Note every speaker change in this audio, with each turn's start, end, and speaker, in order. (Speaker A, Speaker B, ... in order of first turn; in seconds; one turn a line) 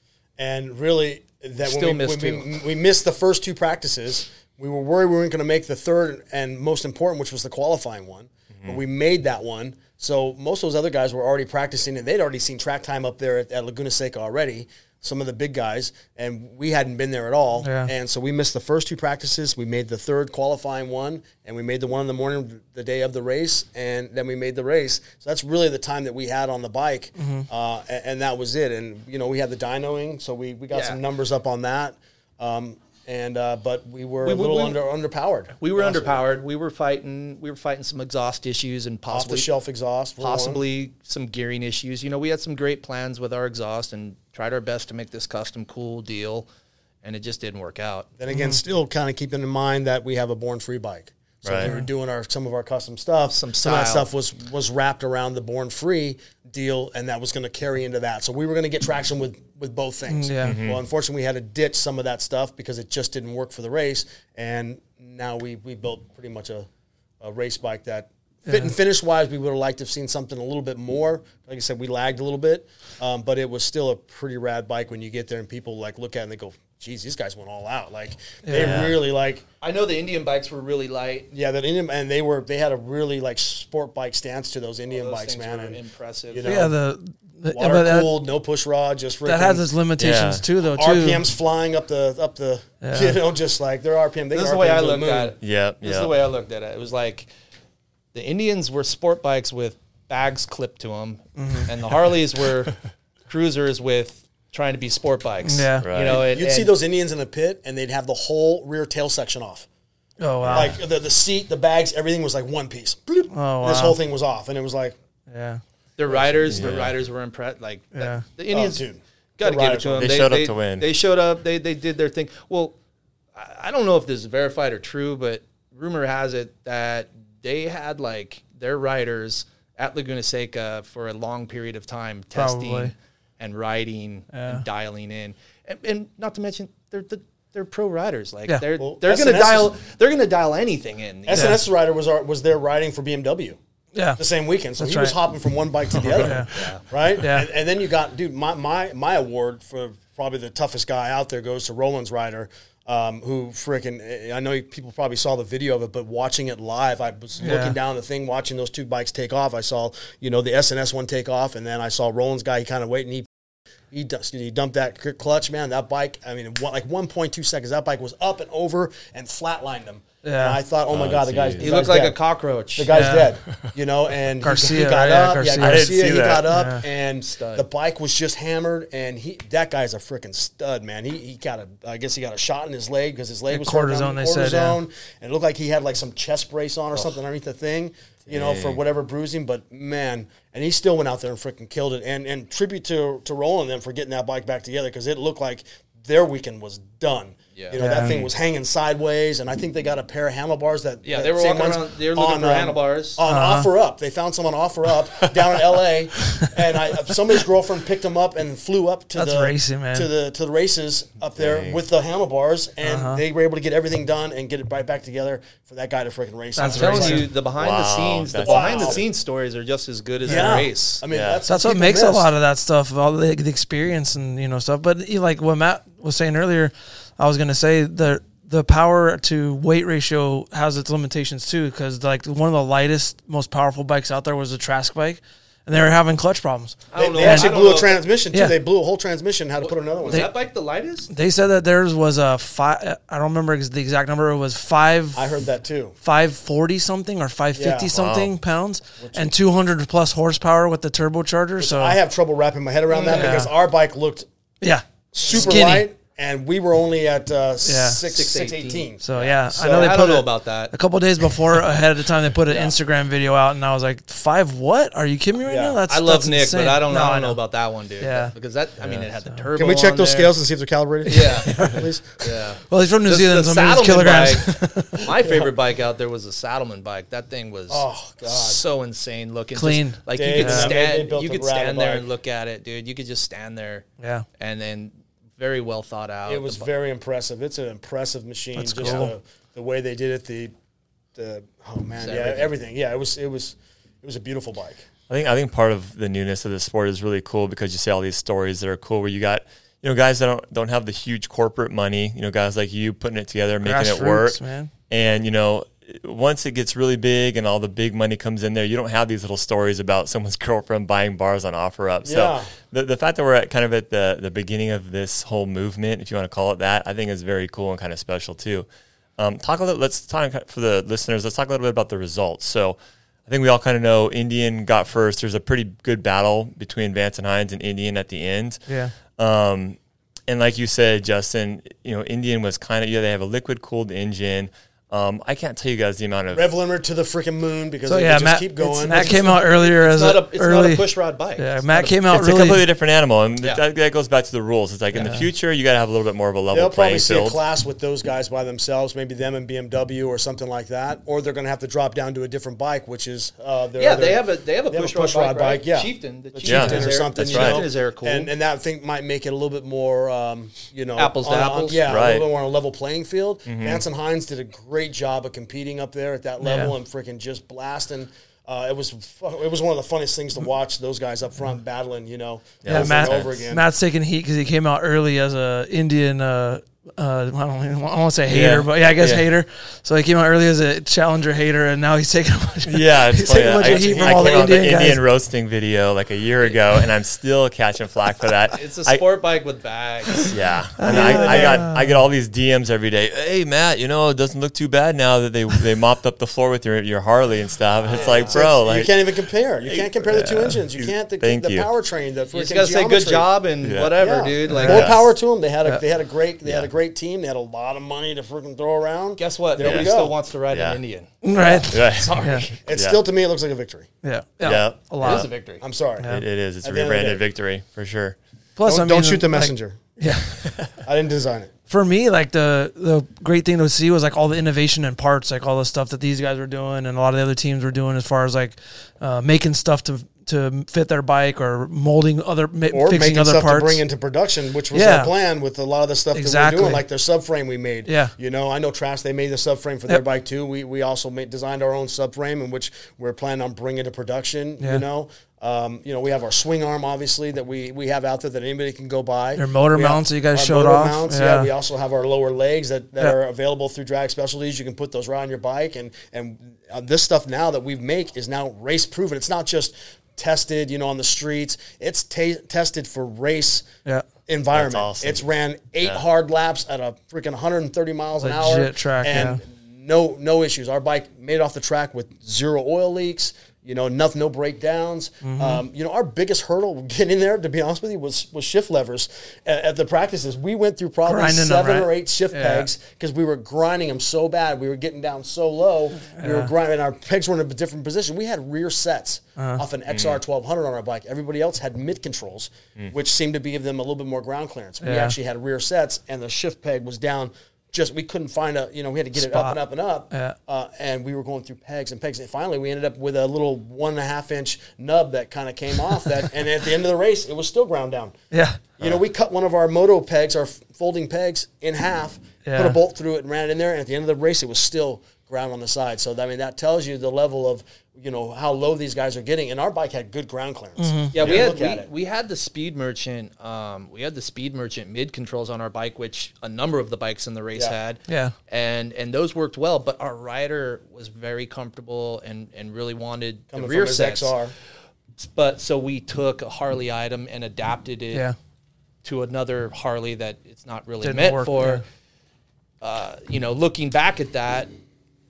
Speaker A: 0.4-36.2
Speaker B: 1.6-2.5
Speaker C: 17.6-17.9
Speaker C: 27.2-27.5
Speaker B: 30.7-31.0
Speaker B: 34.2-34.8
Speaker B: 35.6-39.5
Speaker A: 39.1-40.6
Speaker B: 40.2-46.5
Speaker B: 47.0-48.1
Speaker A: 48.2-66.7
Speaker C: 48.3-48.6
Speaker D: 51.4-51.7
Speaker C: 51.6-51.9
Speaker B: 53.3-54.1
Speaker C: 60.1-60.6
Speaker D: 60.4-60.8
Speaker A: 67.2-79.5
Speaker C: 68.5-68.7
Speaker C: 78.5-78.9
Speaker D: 78.5-79.0
Speaker B: 79.6-81.3
Speaker A: 81.3-86.8
Speaker B: 84.9-86.6
Speaker C: 86.4-88.1
Speaker A: 87.5-89.7
Speaker C: 89.2-91.3
Speaker D: 90.0-90.5
Speaker A: 90.6-95.4
Speaker C: 92.8-93.2
Speaker B: 94.3-97.3
Speaker D: 95.4-96.2
Speaker B: 98.1-102.8
Speaker C: 101.4-101.7
Speaker B: 103.3-106.7
Speaker C: 105.5-105.9
Speaker D: 105.8-106.2
Speaker A: 106.0-109.7
Speaker C: 110.2-110.8
Speaker A: 110.5-115.0
Speaker C: 113.3-114.0
Speaker C: 115.3-115.6
Speaker B: 116.0-118.8
Speaker A: 116.1-116.7
Speaker D: 116.5-117.0
Speaker C: 118.0-118.2
Speaker A: 118.5-120.2
Speaker B: 119.4-122.8
Speaker D: 120.0-120.9
Speaker B: 123.3-141.6
Speaker C: 132.3-132.9
Speaker C: 134.3-134.6
Speaker A: 138.8-139.8
Speaker A: 141.3-143.6
Speaker C: 141.3-141.6
Speaker C: 143.9-144.2
Speaker A: 144.2-163.3
Speaker C: 144.8-145.2
Speaker C: 146.1-146.5
Speaker B: 146.5-146.8
Speaker C: 147.2-147.5
Speaker C: 157.4-157.8
Speaker A: 163.9-172.2
Speaker C: 170.2-170.6
Speaker D: 170.9-171.7
Speaker B: 171.6-172.9
Speaker A: 172.8-217.3
Speaker C: 172.9-173.4
Speaker C: 174.4-176.9
Speaker D: 175.6-176.5
Speaker B: 177.2-177.7
Speaker C: 183.5-184.8
Speaker D: 188.3-188.8
Speaker B: 197.6-197.8
Speaker C: 197.8-198.2
Speaker B: 201.0-203.2
Speaker C: 203.2-203.7
Speaker C: 209.2-210.1
Speaker D: 211.4-211.8
Speaker C: 212.8-213.2
Speaker C: 216.6-217.3
Speaker B: 216.6-221.0
Speaker D: 217.6-219.0
Speaker A: 218.4-219.0
Speaker A: 220.2-222.3
Speaker C: 220.3-220.7
Speaker D: 221.1-221.4
Speaker C: 221.5-237.6
Speaker B: 236.9-238.0
Speaker A: 237.0-240.3
Speaker B: 239.6-241.1
Speaker C: 241.1-245.3
Speaker A: 245.2-246.0
Speaker C: 246.0-252.0
Speaker A: 247.5-247.9
Speaker D: 247.9-248.4
Speaker A: 249.0-249.3
Speaker A: 251.6-254.3
Speaker B: 252.9-253.4
Speaker C: 253.1-253.5
Speaker C: 254.6-255.9
Speaker A: 255.1-260.1
Speaker C: 257.6-258.1
Speaker B: 258.0-260.8
Speaker C: 259.0-267.4
Speaker A: 262.5-262.7
Speaker A: 265.4-265.8
Speaker B: 265.9-270.4
Speaker C: 268.0-268.3
Speaker A: 269.6-272.4
Speaker B: 271.1-283.9
Speaker C: 271.5-271.8
Speaker C: 272.7-275.1
Speaker A: 275.1-275.5
Speaker A: 277.7-278.6
Speaker C: 279.6-280.8
Speaker A: 280.1-282.1
Speaker C: 284.0-284.3
Speaker B: 284.4-286.7
Speaker A: 286.3-290.5
Speaker C: 288.6-289.1
Speaker A: 291.1-294.9
Speaker B: 292.0-292.5
Speaker D: 295.1-318.7
Speaker C: 303.6-304.7
Speaker A: 312.0-312.5
Speaker D: 319.2-328.6
Speaker C: 328.7-328.9
Speaker D: 329.2-329.8
Speaker D: 330.3-336.5
Speaker A: 336.3-339.4
Speaker C: 337.9-340.9
Speaker B: 338.9-342.0
Speaker C: 341.4-342.6
Speaker D: 342.1-347.4
Speaker C: 344.9-345.3
Speaker A: 346.5-373.7
Speaker B: 353.8-358.3
Speaker D: 356.4-357.7
Speaker B: 361.0-361.8
Speaker D: 361.9-362.3
Speaker D: 363.5-363.8
Speaker C: 366.4-366.7
Speaker D: 372.6-373.4
Speaker C: 372.7-385.0
Speaker D: 378.3-379.3
Speaker D: 382.7-389.0
Speaker A: 383.7-384.7
Speaker B: 388.5-390.4
Speaker D: 390.3-399.0
Speaker C: 390.8-391.9
Speaker A: 390.8-391.7
Speaker A: 397.8-403.3
Speaker B: 397.9-398.4
Speaker D: 399.7-401.7
Speaker B: 402.3-405.0
Speaker D: 403.6-405.0
Speaker A: 403.9-410.2
Speaker C: 404.5-404.8
Speaker B: 409.2-412.6
Speaker D: 409.6-409.9
Speaker D: 410.5-410.8
Speaker C: 411.2-412.4
Speaker D: 411.7-413.0
Speaker A: 412.6-413.9
Speaker C: 414.0-415.3
Speaker D: 414.4-415.3
Speaker B: 415.0-415.6
Speaker A: 415.6-417.2
Speaker D: 416.1-418.2
Speaker C: 418.6-420.4
Speaker A: 418.6-419.9
Speaker A: 420.8-421.5
Speaker C: 421.7-433.8
Speaker A: 432.7-463.7
Speaker C: 434.7-435.1
Speaker C: 436.1-436.8
Speaker C: 437.9-438.1
Speaker C: 449.4-451.5
Speaker A: 464.3-508.1
Speaker D: 464.5-465.2
Speaker C: 468.2-469.4
Speaker C: 475.2-475.6
Speaker C: 481.1-482.7
Speaker C: 486.1-486.5
Speaker C: 489.4-489.6
Speaker D: 489.9-490.2
Speaker C: 494.8-495.1
Speaker C: 499.2-499.6
Speaker C: 500.1-500.4
Speaker C: 508.3-508.6
Speaker A: 508.8-521.9
Speaker C: 512.5-512.8
Speaker C: 520.8-521.1
Speaker B: 521.1-534.4
Speaker C: 528.1-528.4
Speaker A: 533.5-534.5
Speaker B: 535.2-538.3
Speaker B: 539.0-541.9
Speaker C: 541.0-541.8
Speaker B: 542.8-544.7